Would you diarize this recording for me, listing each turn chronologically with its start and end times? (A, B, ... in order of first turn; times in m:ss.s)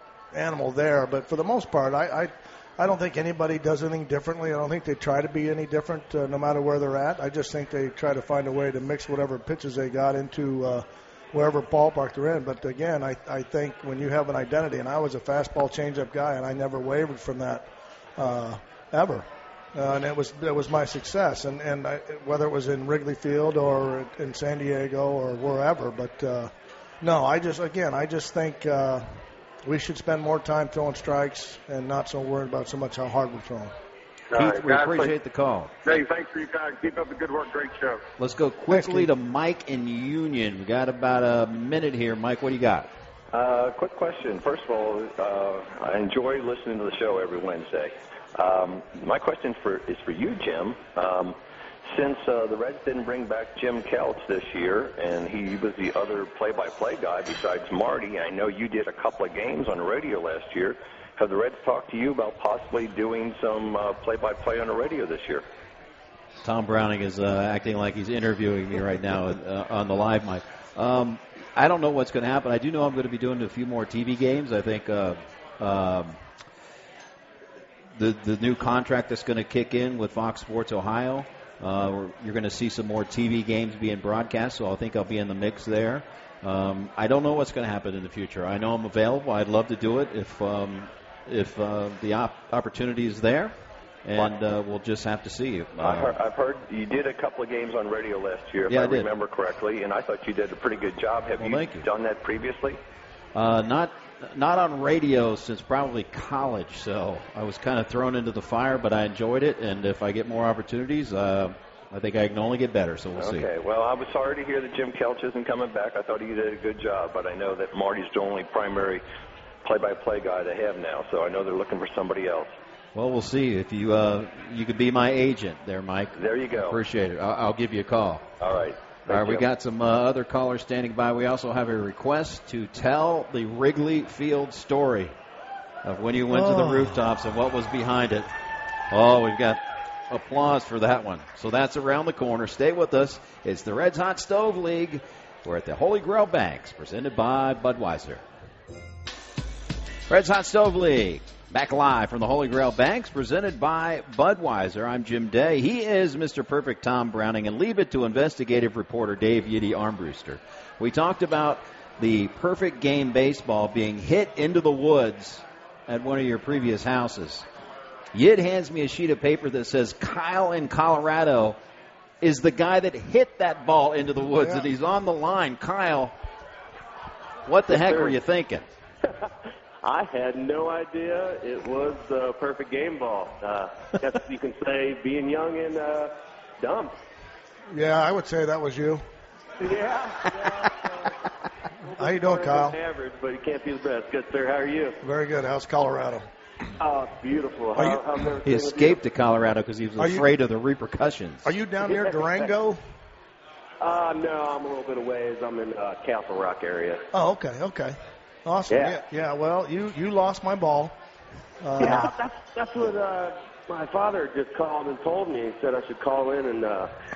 0:00.3-0:26.5 A
0:27.0-0:29.0 A
0:29.6-0:33.7 A
0:34.3-0:35.1 B
0:34.3-0:35.8 C
0:35.8-0:38.0 B
0:38.2-0:42.9 C
0:38.7-0:39.1 A
0:43.3-0:51.4 D
0:51.9-1:05.4 D
1:06.4-1:16.2 C
1:18.0-1:33.5 C
1:34.0-1:36.2 C
1:35.8-1:42.8 D
1:38.7-1:39.1 C
1:41.4-1:41.8 C
1:43.3-1:53.4 C
1:53.2-1:59.0 D
1:59.6-2:02.5 D
2:02.9-2:08.2 C
2:06.1-2:06.8 D
2:08.4-2:09.4 D
2:09.1-2:15.1 C
2:15.8-2:18.3 C
2:16.3-2:17.0 A
2:18.9-2:28.2 C
2:30.1-2:47.4 C
2:48.1-2:51.6 C
2:52.2-2:56.1 C
2:54.4-2:54.7 A
2:57.5-2:58.6 C
2:57.7-2:58.2 E
2:59.8-3:06.9 E
3:07.7-3:09.0 A
3:09.6-3:11.1 E
3:11.9-3:15.0 E
3:12.0-3:12.8 A
3:15.0-3:16.3 A
3:16.8-3:19.0 E
3:17.7-3:18.0 A
3:18.4-3:21.5 C
3:20.0-3:20.3 A
3:21.4-3:22.8 A
3:21.8-3:22.5 E
3:23.8-3:27.0 E
3:27.1-3:31.0 A
3:28.7-3:29.0 E
3:31.6-3:32.2 A
3:31.8-3:36.9 E